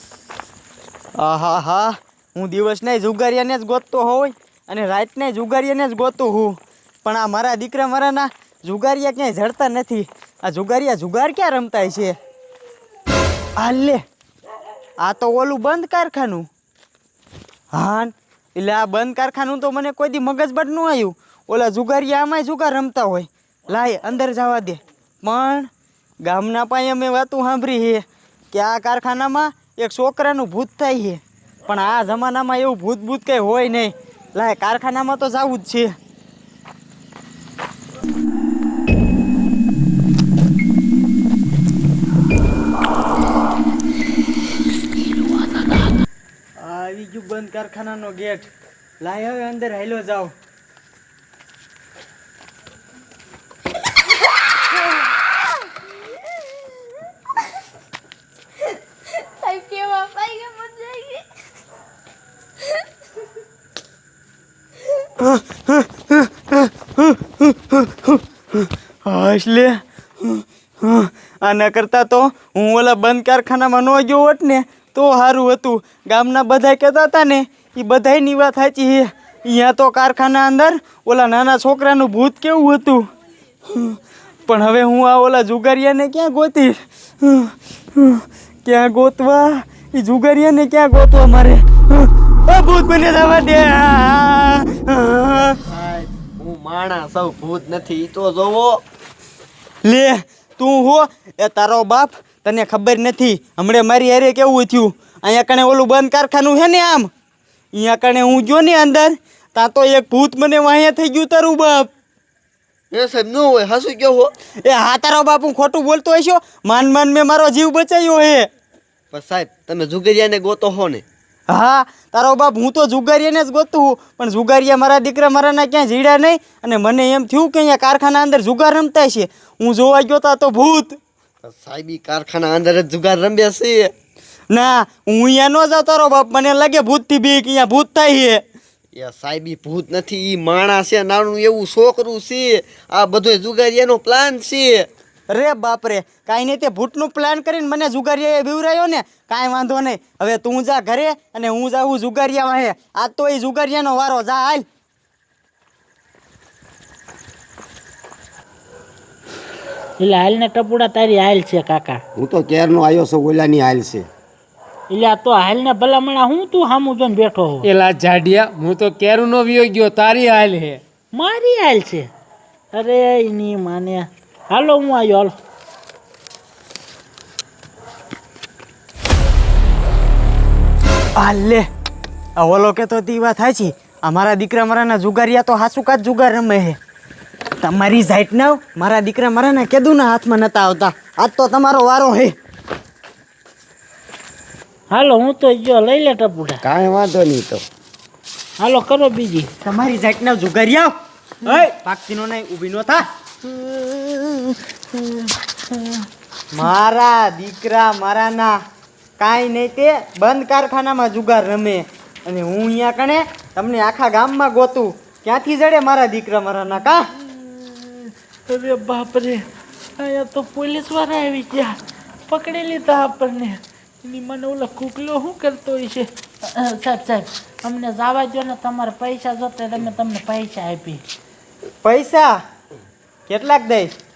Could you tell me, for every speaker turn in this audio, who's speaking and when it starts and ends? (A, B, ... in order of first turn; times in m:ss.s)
0:01.2-0:12.1 A
0:13.6-0:14.0 A
0:15.0-0:16.5 A
0:17.7-0:25.7 A
0:26.2-0:35.9 A
0:46.6-0:48.5 A
0:49.0-0:50.3 A
0:59.1-1:01.2 B
1:05.2-1:23.0 A
1:23.7-1:35.6 A
1:35.5-1:38.8 C
1:39.8-1:47.1 A
1:47.7-1:51.9 A
1:52.9-1:54.3 C
1:54.6-1:58.5 A
1:59.1-2:01.0 C
2:01.5-2:11.0 A
2:11.4-2:13.9 C
2:14.5-2:18.4 A
2:18.9-2:24.9 C
2:25.3-2:34.6 A
2:40.0-2:42.0 D
2:42.1-2:44.1 E
2:44.9-2:47.7 D
2:47.6-2:50.8 F
2:51.1-2:52.1 D
2:52.7-2:55.3 D
3:01.2-3:01.6 A
3:02.4-3:06.8 A
3:07.6-3:12.3 A
3:14.9-3:16.6 D
3:16.6-3:17.6 E
3:18.6-3:19.5 D
3:19.6-3:23.0 A
3:23.4-3:26.0 D
3:26.5-3:28.6 A
3:29.2-3:37.0 A
3:37.2-3:39.4 D
3:40.0-3:41.7 D
3:42.3-3:51.0 D
3:51.8-3:52.4 A
3:53.3-3:53.9 A